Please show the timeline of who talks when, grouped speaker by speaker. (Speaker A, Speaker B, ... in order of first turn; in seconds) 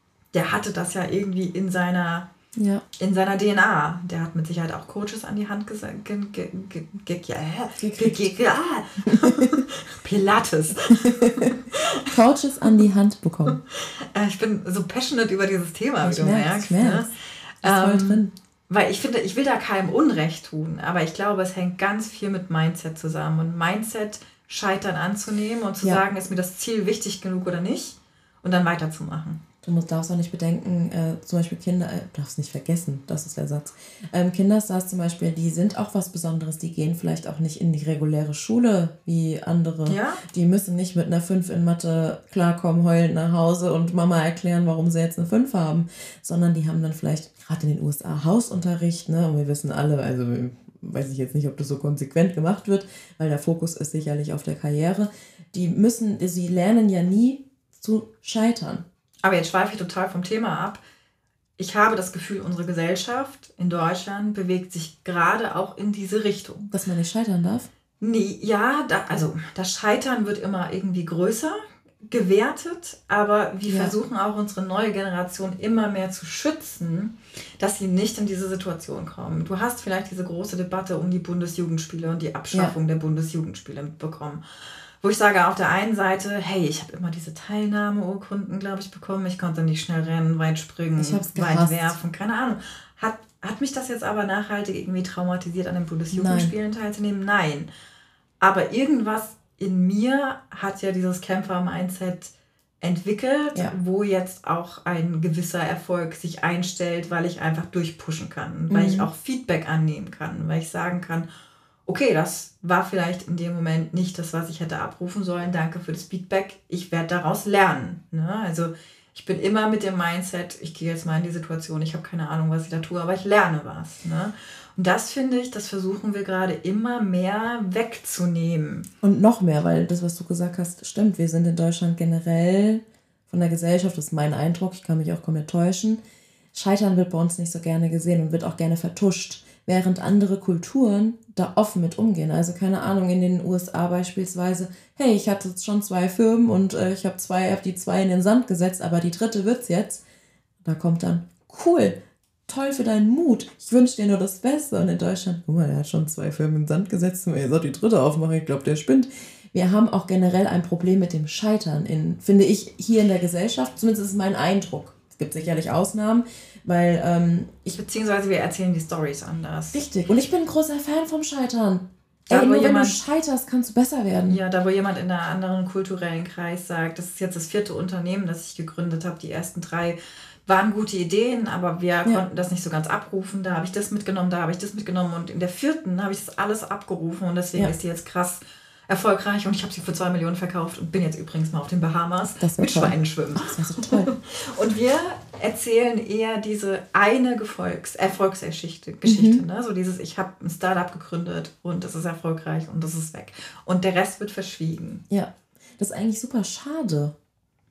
Speaker A: 0.3-2.3, 3.0-12.1, 13.5-17.1, 17.6-29.4, 39.9-40.2, 59.2-60.8, 61.6-66.7, 68.0-84.4, 85.0-97.7, 98.4-111.3, 111.9-128.9, 167.7-169.8, 172.3-173.0, 174.3-205.0
Speaker B: 2.6-2.8, 7.8-8.3, 9.1-9.6, 11.1-13.6, 16.0-18.3, 29.6-58.9, 66.7-67.7, 73.7-74.0, 91.0-92.0, 96.1-96.5, 108.7-109.1, 129.0-136.0, 136.5-150.0, 150.6-167.7, 169.7-174.4, 192.4-194.1, 199.1-199.4, 205.1-207.2